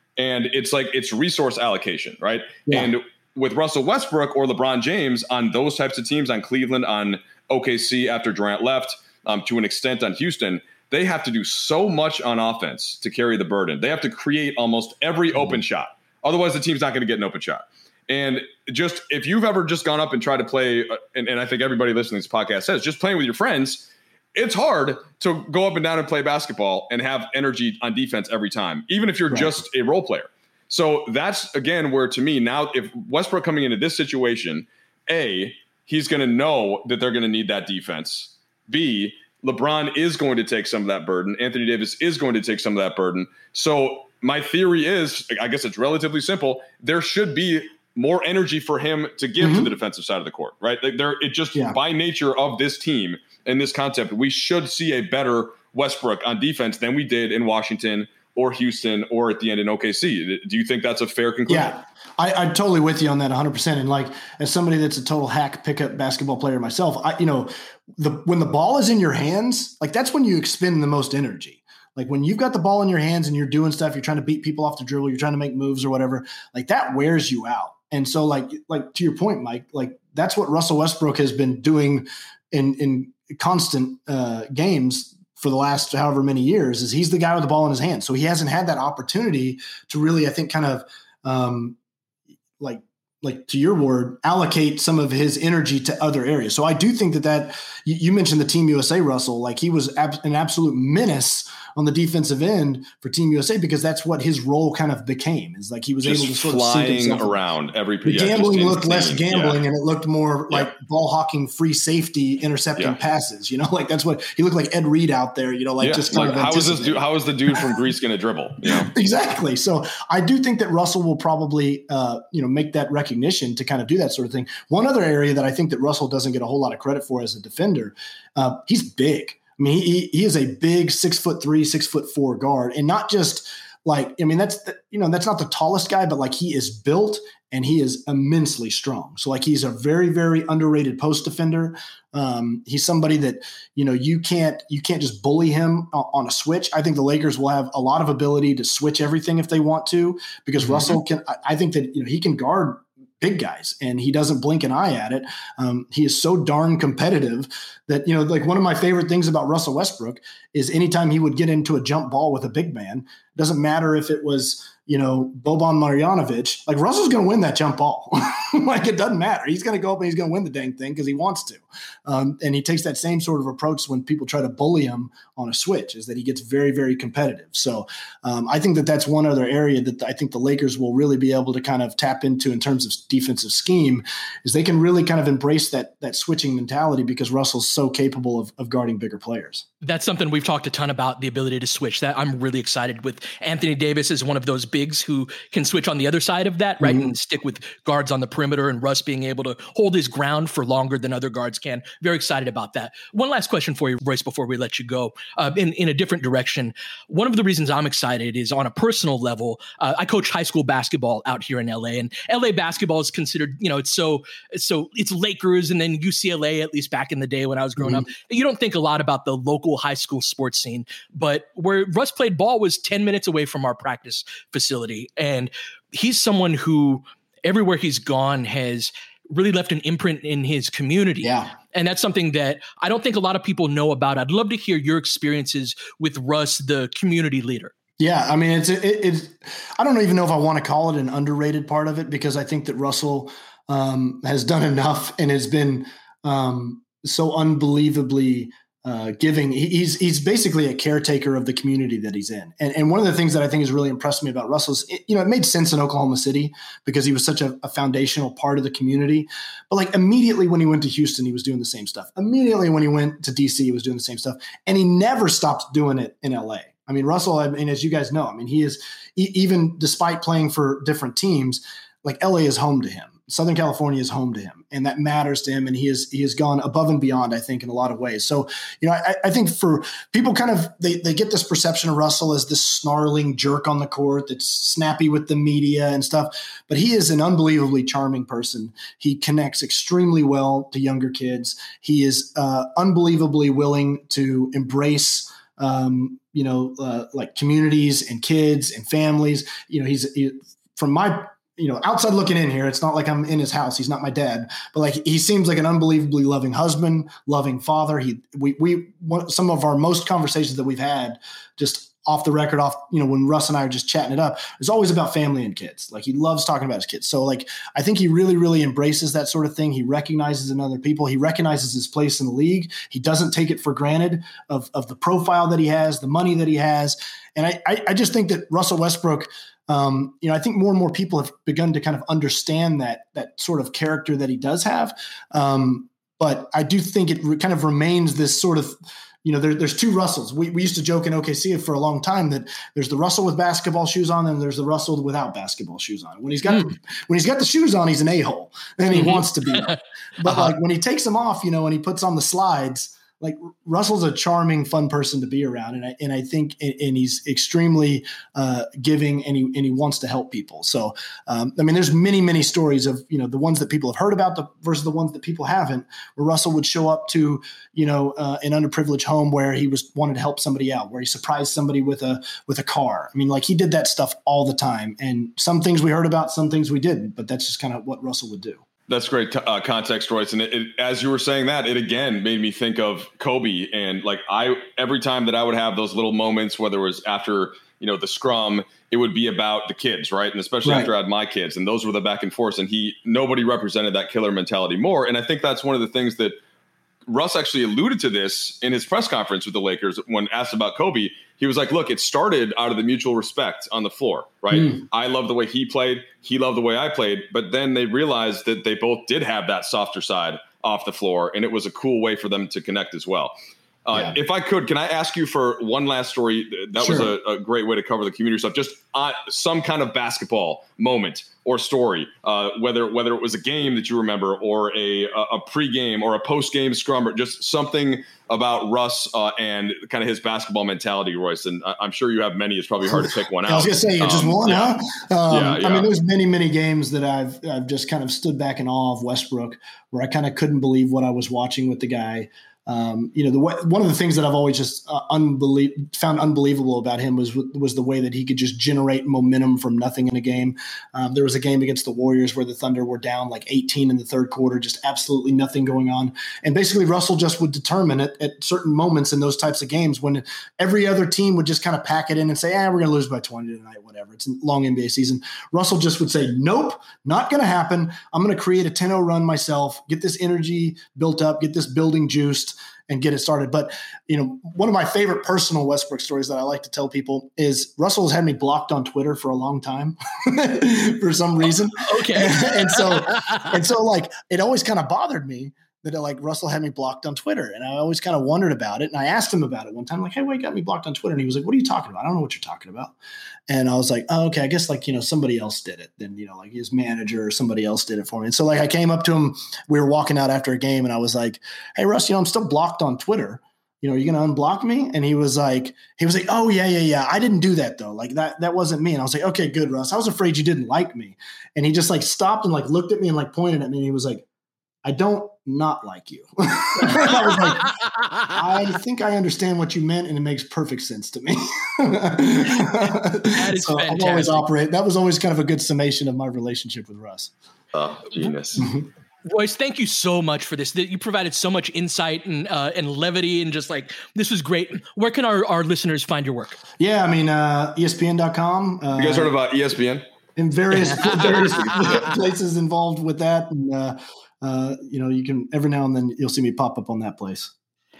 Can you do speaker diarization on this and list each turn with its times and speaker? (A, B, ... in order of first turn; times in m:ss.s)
0:00.2-1:01.7 A
0:29.3-0:29.6 B
0:49.4-0:49.7 B
1:01.5-1:31.8 B
1:32.6-1:47.4 B
1:46.0-1:49.6 A
1:48.0-1:57.1 B
1:55.8-1:58.9 A
1:58.6-3:09.6 B
3:09.8-3:57.7 C
3:16.8-3:17.1 B
3:51.2-3:51.5 B
3:58.0-6:18.6 B
5:48.9-5:49.7 C
5:50.2-5:50.5 C
6:18.9-6:36.4 A
6:30.6-6:30.9 B
6:37.1-6:53.3 A
6:44.5-6:44.8 B
6:53.8-7:14.8 A
6:56.8-6:57.1 B
7:12.8-8:12.9 B
7:15.3-7:15.9 A
8:01.8-8:03.5 C
8:13.5-8:34.2 B
8:34.8-8:47.3 B
8:42.5-8:44.4 C
8:47.7-8:48.6 A
8:48.6-8:48.9 B
8:49.2-8:56.6 C
8:56.8-8:59.3 B
8:59.0-9:00.0 A
9:00.4-9:07.5 B